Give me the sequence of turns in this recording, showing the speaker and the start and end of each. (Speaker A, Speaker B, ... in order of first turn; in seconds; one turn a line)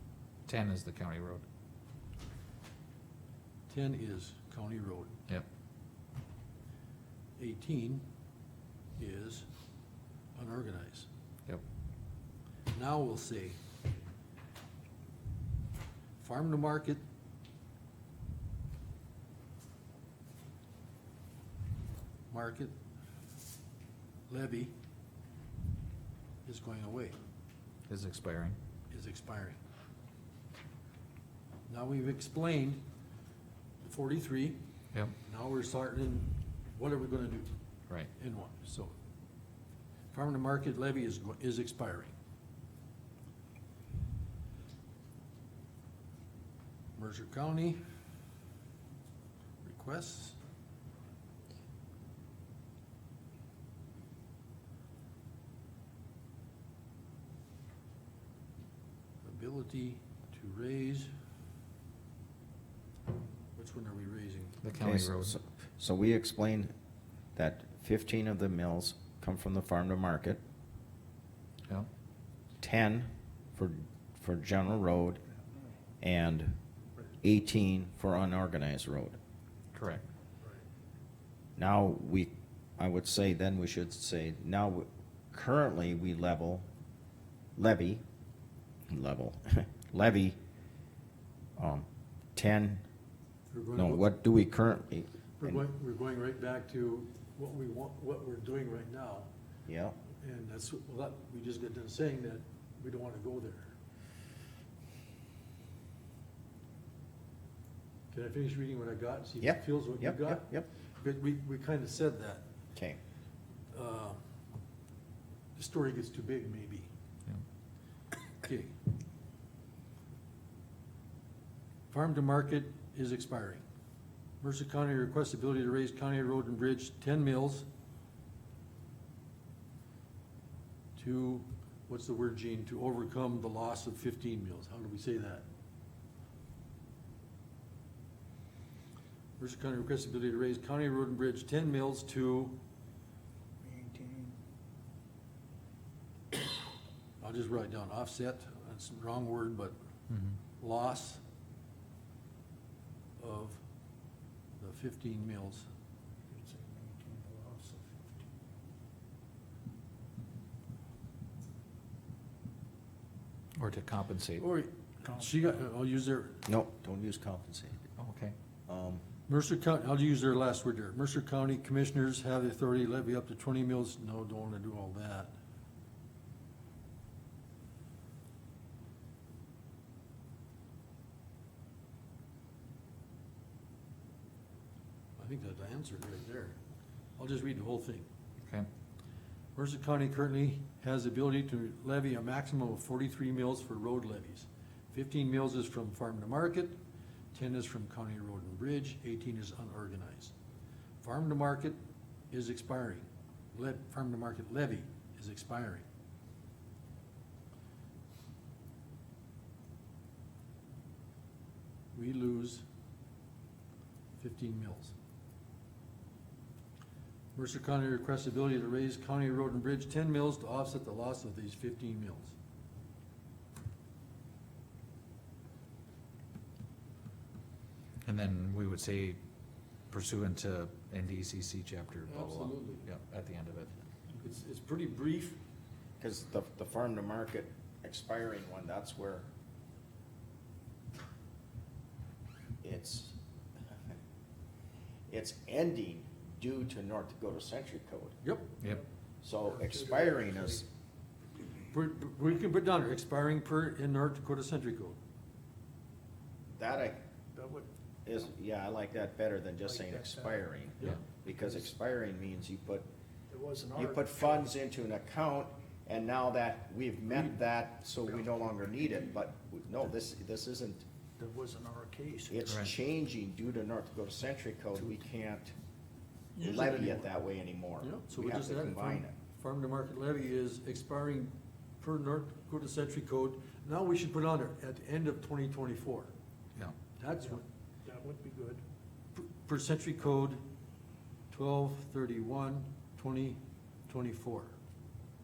Speaker A: 0.5-1.4
Speaker B: 3.7-5.1
Speaker B: 7.4-8.0
Speaker B: 9.0-9.4
Speaker B: 10.3-11.1
Speaker B: 12.7-13.6
Speaker B: 16.2-17.0
Speaker B: 22.3-22.7
Speaker B: 24.3-24.7
Speaker B: 26.4-27.1
Speaker A: 27.9-28.6
Speaker B: 28.9-29.6
Speaker B: 31.7-32.8
Speaker B: 33.8-34.6
Speaker B: 35.2-37.5
Speaker B: 38.2-38.9
Speaker B: 40.1-42.1
Speaker B: 47.0-47.8
Speaker B: 49.6-50.4
Speaker B: 59.2-61.1
Speaker B: 63.5-64.5
Speaker A: 64.6-65.4
Speaker C: 64.8-66.7
Speaker C: 67.3-70.4
Speaker C: 72.6-75.2
Speaker C: 76.0-76.6
Speaker C: 77.2-79.2
Speaker A: 79.7-80.0
Speaker C: 81.6-86.7
Speaker C: 87.5-88.0
Speaker C: 88.9-90.3
Speaker C: 91.6-92.8
Speaker B: 93.5-94.0
Speaker C: 93.8-95.6
Speaker B: 95.4-99.3
Speaker C: 99.7-100.0
Speaker B: 100.2-103.7
Speaker B: 108.1-110.5
Speaker C: 109.4-110.7
Speaker B: 111.0-112.4
Speaker B: 113.7-114.2
Speaker B: 115.5-116.9
Speaker B: 118.4-118.8
Speaker B: 121.9-123.6
Speaker B: 124.4-127.7
Speaker B: 130.9-135.4
Speaker B: 139.4-142.6
Speaker D: 143.6-144.4
Speaker B: 147.2-149.8
Speaker A: 150.1-150.4
Speaker B: 150.6-151.2
Speaker B: 153.2-153.6
Speaker B: 154.6-155.7
Speaker D: 156.3-158.3
Speaker A: 163.6-164.4
Speaker B: 164.4-166.4
Speaker D: 165.0-165.3
Speaker C: 166.4-167.8
Speaker A: 168.0-168.3
Speaker C: 168.7-169.0
Speaker B: 169.3-175.3
Speaker B: 185.2-186.6
Speaker B: 187.2-188.1
Speaker A: 188.4-188.7
Speaker B: 189.5-196.8
Speaker B: 197.3-200.3
Speaker B: 201.0-201.8
Speaker B: 202.3-205.8
Speaker B: 211.9-212.6
Speaker B: 214.2-214.9
Speaker B: 217.3-222.3
Speaker A: 228.0-229.2
Speaker A: 229.9-233.7
Speaker B: 232.1-232.9
Speaker B: 234.2-235.4
Speaker C: 236.0-239.2
Speaker C: 242.6-243.2
Speaker C: 245.1-248.2
Speaker B: 248.2-248.5
Speaker C: 249.2-250.7
Speaker D: 249.5-250.6
Speaker B: 251.4-255.0
Speaker C: 256.5-257.0
Speaker D: 257.3-257.7
Speaker C: 258.1-262.9
Speaker D: 259.6-261.0
Speaker D: 263.3-264.5
Speaker C: 263.7-270.8
Speaker D: 271.2-272.4
Speaker C: 272.3-275.5
Speaker A: 272.4-272.7
Speaker B: 276.4-276.9
Speaker C: 276.4-279.1
Speaker D: 276.6-276.9
Speaker B: 277.8-286.1
Speaker B: 287.0-287.4
Speaker D: 287.2-288.6
Speaker B: 289.1-290.4
Speaker B: 291.3-294.5